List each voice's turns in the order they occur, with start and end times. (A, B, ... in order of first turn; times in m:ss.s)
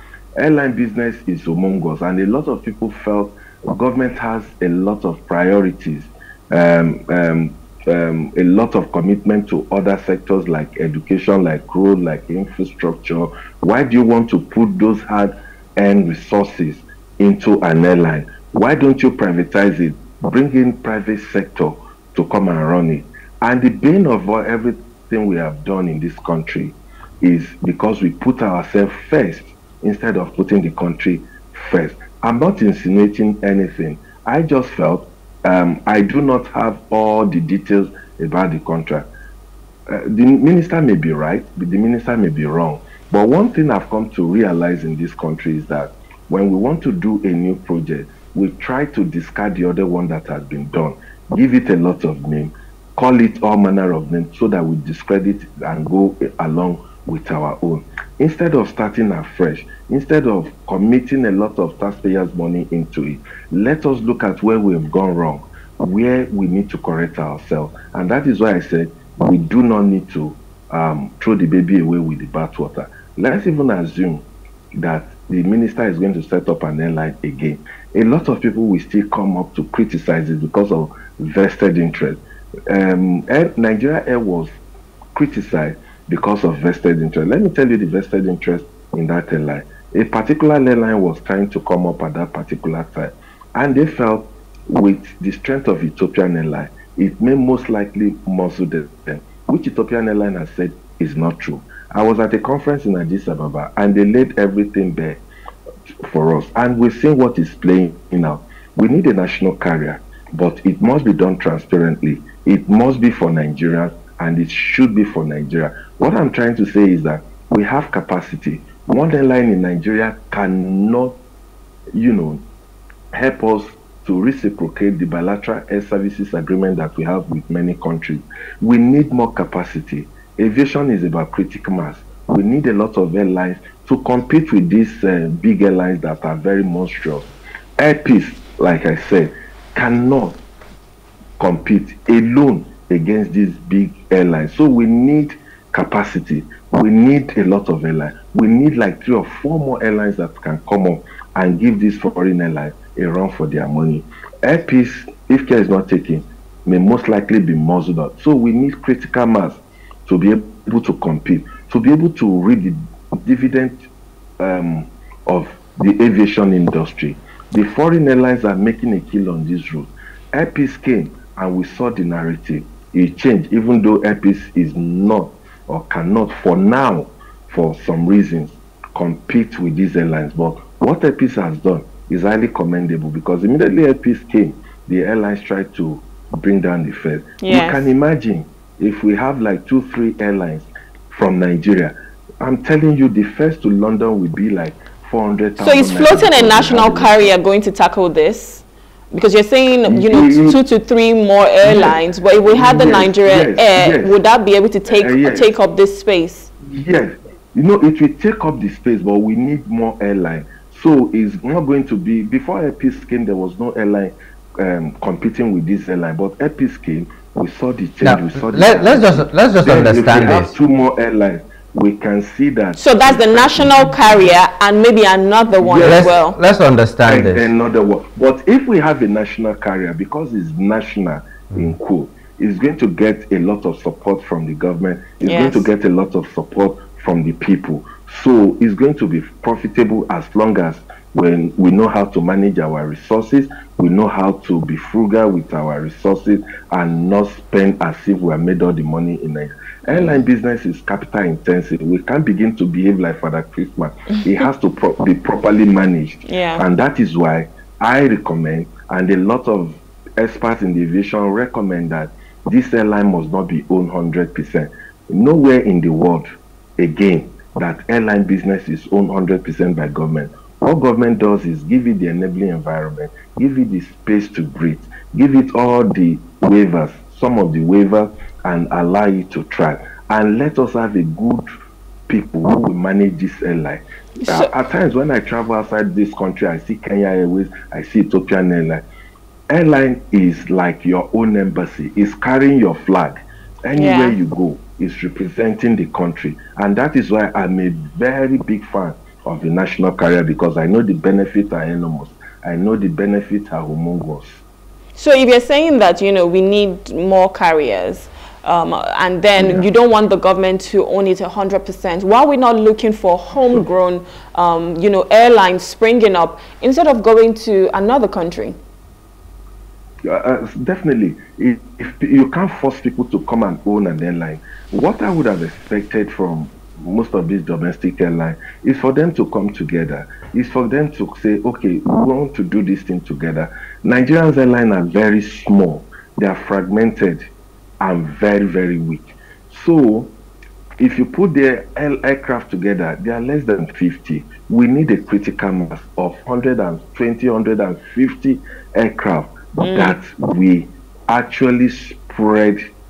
0:00.4-0:39.1 A
0:39.9-1:14.2 A
1:14.8-1:22.2 A
1:22.7-1:24.5 A
1:25.2-1:45.2 A
1:46.0-2:01.2 A
2:02.0-2:02.4 A
2:03.1-2:17.3 A
2:17.8-2:20.4 A
2:21.4-2:43.8 A
2:44.4-3:17.3 A
3:07.4-3:07.9 B
3:15.6-3:26.5 B
3:19.9-3:20.6 A
3:21.6-3:22.0 A
3:22.5-3:24.2 A
3:24.9-3:25.5 A
3:26.6-3:43.8 A
3:38.0-3:40.5 C
3:42.8-3:46.4 B
3:45.6-3:46.1 A
3:45.7-3:47.5 C
3:47.0-4:26.2 A
3:55.2-3:55.7 B
4:09.9-4:10.1 B
4:14.1-4:14.4 B
4:16.2-4:16.6 B
4:26.8-4:41.4 A
4:42.1-4:48.8 A
4:44.2-4:44.5 B
4:49.5-5:04.4 A
4:53.7-4:54.2 B
5:05.0-5:18.6 B
5:09.4-5:09.6 A
5:20.0-5:37.2 A
5:37.8-5:40.1 A
5:40.8-5:52.6 A
5:49.6-5:50.0 B